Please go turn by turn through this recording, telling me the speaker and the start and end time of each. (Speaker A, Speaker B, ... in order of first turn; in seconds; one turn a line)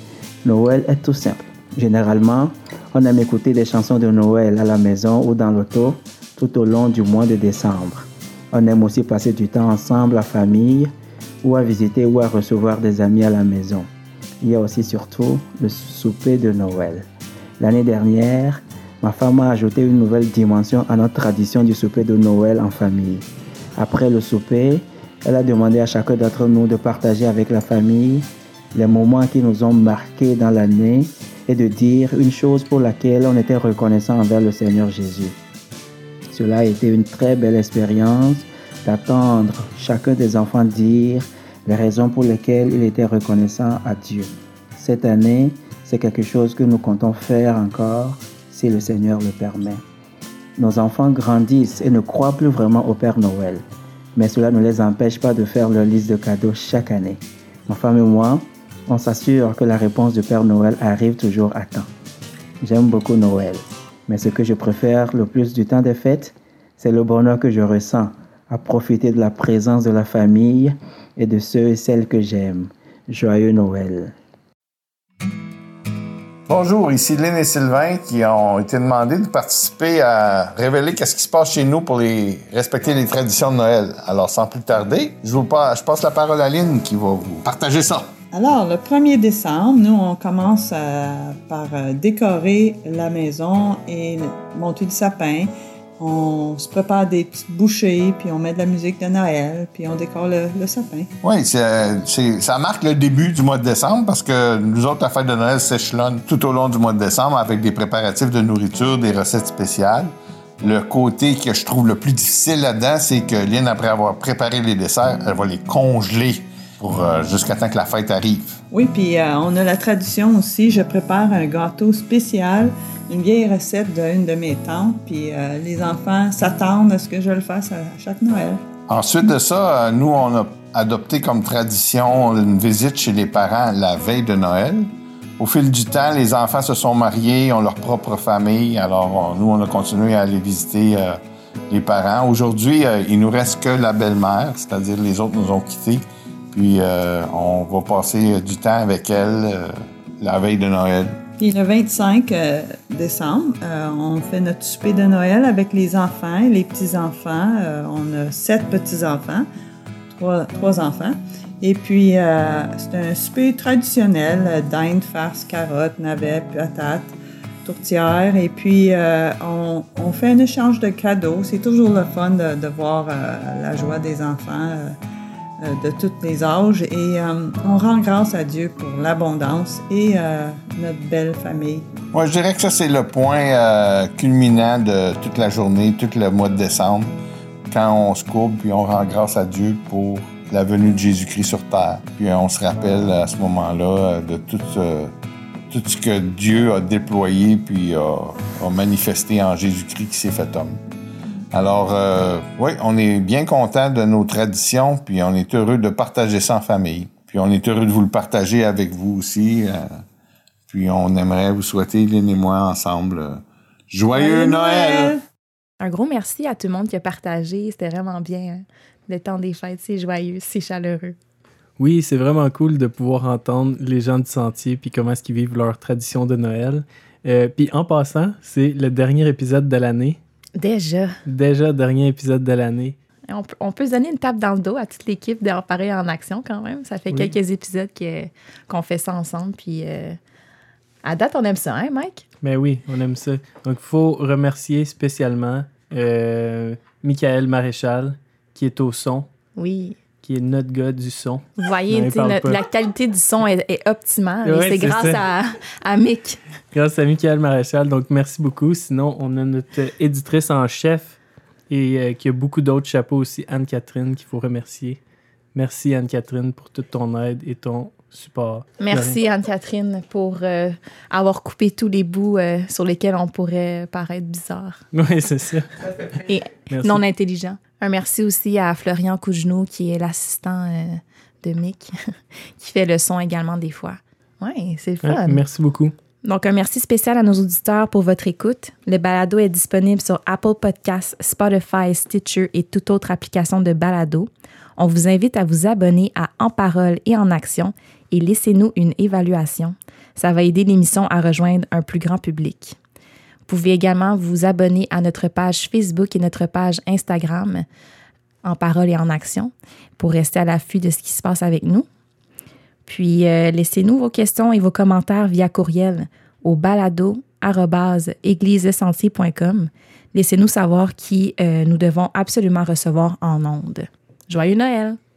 Speaker A: 0.4-10.9
Speaker A: 11.4-13.9
Speaker A: 14.4-17.1
Speaker A: 17.6-23.3
Speaker A: 23.8-35.4
Speaker A: 36.3-49.8
Speaker A: 50.6-53.6
Speaker A: 54.2-61.9
Speaker A: 62.6-74.1
Speaker B: 76.5-88.1
Speaker C: 88.3-101.1
Speaker B: 101.2-118.5
Speaker C: 118.7-128.6
Speaker B: 128.9-151.2
Speaker C: 151.4-159.5
Speaker C: 160.1-167.1
Speaker C: 167.7-175.0
Speaker C: 175.6-181.9
Speaker B: 182.1-187.2
Speaker B: 187.7-195.1
Speaker B: 195.7-200.8
Speaker B: 201.5-209.9
Speaker B: 210.7-215.2
Speaker C: 214.1-215.2
Speaker D: 215.8-221.2
Speaker E: 221.8-230.2
Speaker D: 230.6-231.1
Speaker E: 231.3-233.0
Speaker D: 233.3-240.2
Speaker E: 237.1-237.3
Speaker D: 241.0-242.2
Speaker E: 242.4-249.3
Speaker D: 249.6-250.0
Speaker E: 250.2-252.6
Speaker D: 251.6-256.4
Speaker E: 254.4-255.2
Speaker E: 256.7-261.2
Speaker E: 261.7-265.0
Speaker E: 265.5-269.2
Speaker D: 268.8-274.8
Speaker E: 274.9-275.7
Speaker D: 276.2-281.9
Speaker E: 276.7-277.0
Speaker D: 282.6-285.4
Speaker E: 285.0-285.9
Speaker D: 286.2-302.8
Speaker D: 303.5-307.7
Speaker D: 308.4-311.9
Speaker D: 312.9-325.0